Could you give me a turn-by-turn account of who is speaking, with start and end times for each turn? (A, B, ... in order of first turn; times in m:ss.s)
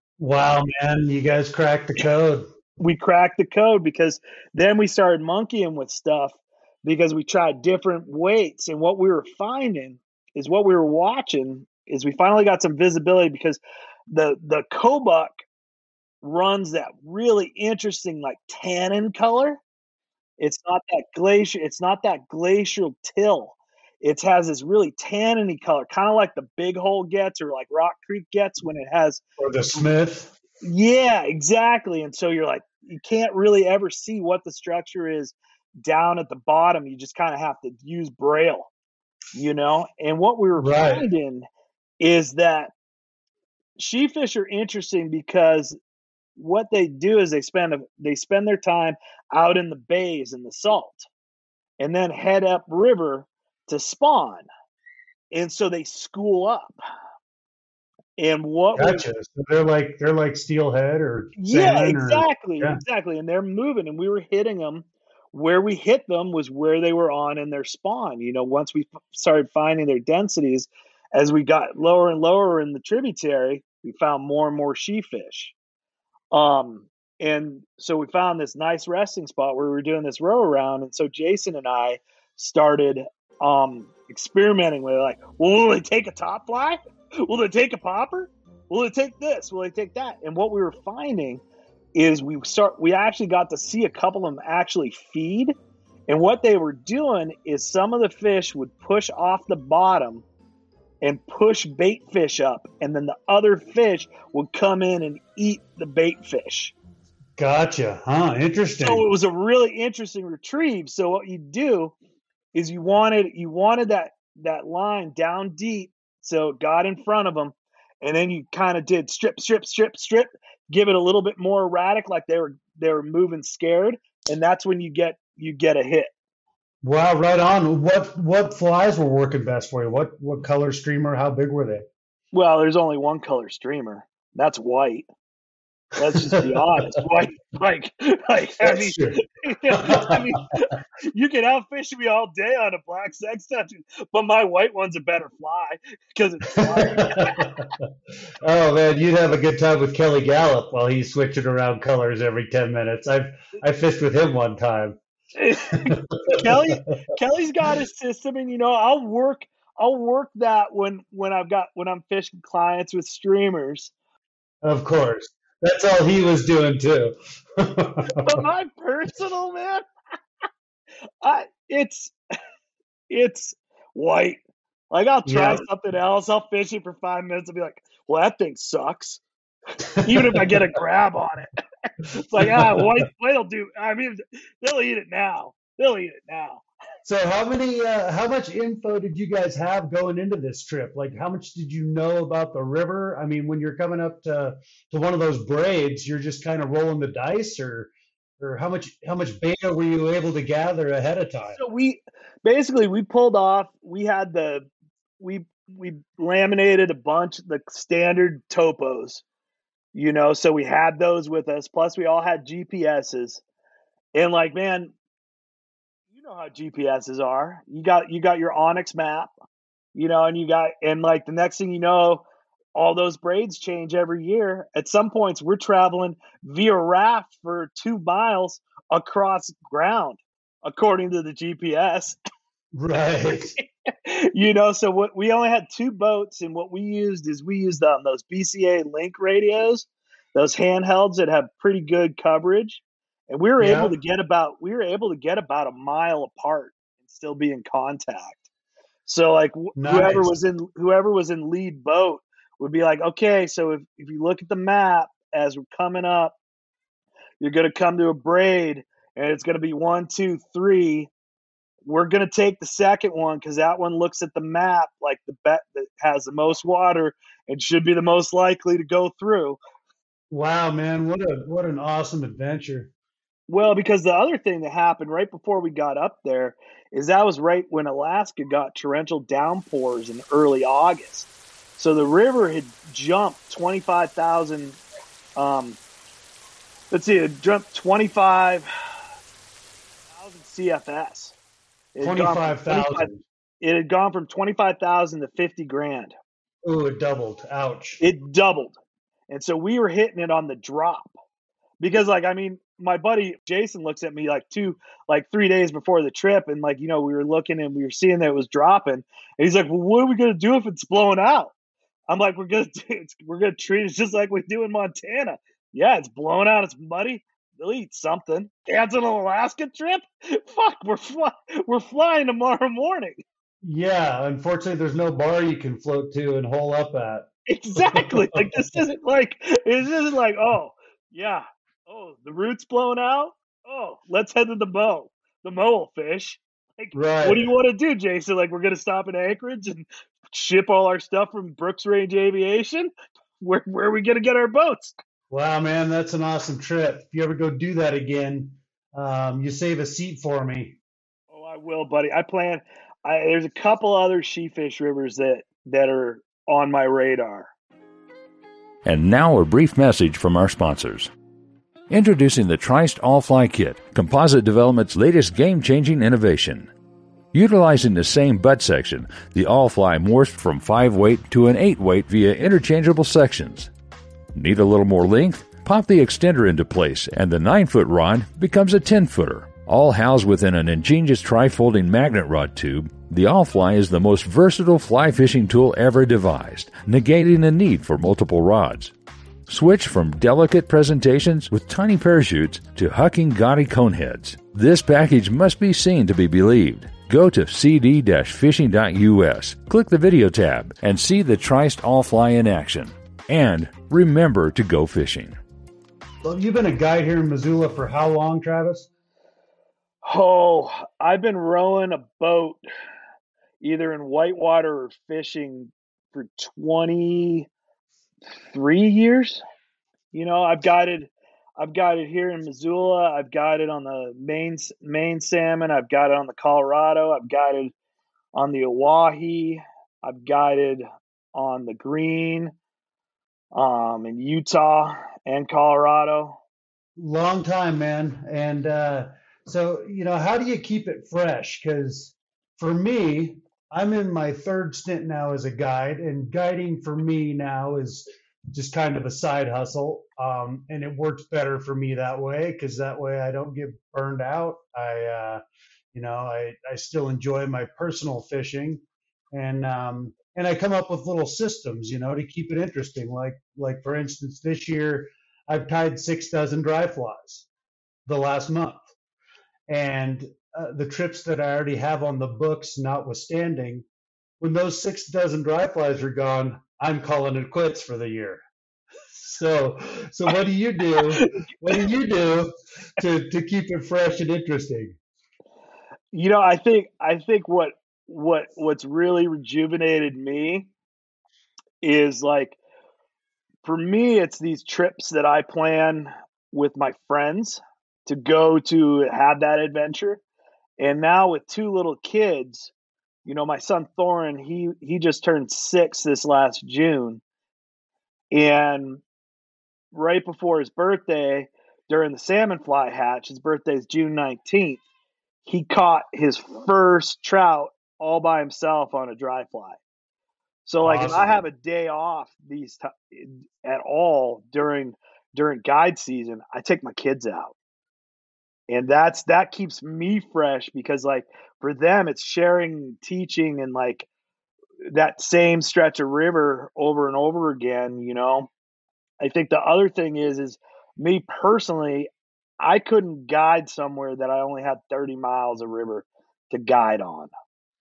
0:00.2-0:02.5 A
0:02.8-0:15.3 B
0:16.2-0:19.6 B
0:20.4-0:29.2 B
0:29.4-0:30.3 A
0:30.6-0:38.7 B
0:39.4-0:41.5 B
0:40.6-0:41.1 A
0:42.0-0:42.7 B
0:43.8-0:45.8 B
0:46.4-0:51.1 B
0:51.8-0:54.5 B
0:55.3-0:56.8 B
0:58.2-0:59.0 B
0:58.8-1:02.8 A
1:01.4-1:15.6 B
1:16.3-1:31.4 B
1:32.0-1:35.6 B
1:36.1-1:40.2 B
1:41.0-1:46.7 B
1:47.4-1:49.0 A
1:48.8-1:52.0 B
1:52.5-2:06.1 B
2:06.8-2:11.9 A
2:12.3-2:15.1 B
2:16.0-2:27.6 B
2:16.0-2:17.0 A
2:18.6-2:20.3 A
2:26.6-2:27.9 A
2:28.4-2:35.0 A
2:35.4-2:43.9 B
2:35.8-2:36.6 A
2:44.6-2:48.4 A
2:48.2-2:49.8 B
2:51.2-2:52.1 B
2:53.1-2:59.2 B
2:55.3-2:55.6 A
3:00.0-3:00.6 A
3:00.0-3:06.6 B
3:02.4-3:03.0 A
3:07.0-3:21.6 A
3:21.5-3:24.7 B
3:25.2-3:29.2 B
3:29.9-3:33.4 B
3:34.2-3:34.9 B
3:36.1-3:39.3 B
3:40.0-3:52.2 B
3:52.7-3:53.6 A
3:53.6-4:08.5 B
4:03.6-4:03.9 A
4:09.0-4:16.4 B
4:09.8-4:10.3 A
4:17.4-4:21.1 B
4:21.8-4:29.6 B
4:30.3-4:32.9 A
4:33.5-4:44.8 B
4:45.4-4:45.8 B
4:46.9-4:48.7 B
4:50.1-4:51.4 B
4:52.0-4:53.1 B
4:52.0-4:53.2 A
4:53.6-4:56.2 B
4:56.6-4:58.0 A
4:58.0-4:58.8 B
4:59.3-5:01.1 B
5:01.8-5:11.5 B
5:12.1-5:23.2 B
5:23.6-5:28.8 A
5:27.5-5:45.0 B
5:36.9-5:37.5 A
5:45.3-5:50.8 A
5:51.3-5:57.5 B
5:58.8-6:01.1 C
6:01.9-6:06.7 C
6:07.3-6:13.7 C
6:14.3-6:28.9 C
6:29.5-6:45.4 C
6:46.2-6:48.9 A
6:50.0-6:52.6 B
6:53.6-6:57.5 B
6:58.4-6:59.4 B
7:00.1-7:07.7 B
7:08.4-7:10.8 B
7:11.4-7:12.5 B
7:13.5-7:16.4 B
7:17.0-7:35.4 A
7:35.9-7:47.5 A
7:48.1-7:48.9 A
7:49.7-7:53.9 A
7:54.4-7:58.4 A
7:59.1-8:05.0 A
8:01.0-8:01.8 B
8:06.1-8:10.7 B
8:11.8-8:12.6 B
8:13.6-8:20.2 B
8:20.8-8:22.7 B
8:23.2-8:27.2 B
8:28.3-8:29.0 B
8:29.9-8:34.8 B
8:35.4-8:39.8 B
8:40.6-8:47.6 B
8:40.8-8:41.4 A
8:48.7-8:54.1 B
8:54.9-8:58.5 B
8:59.2-9:07.3 B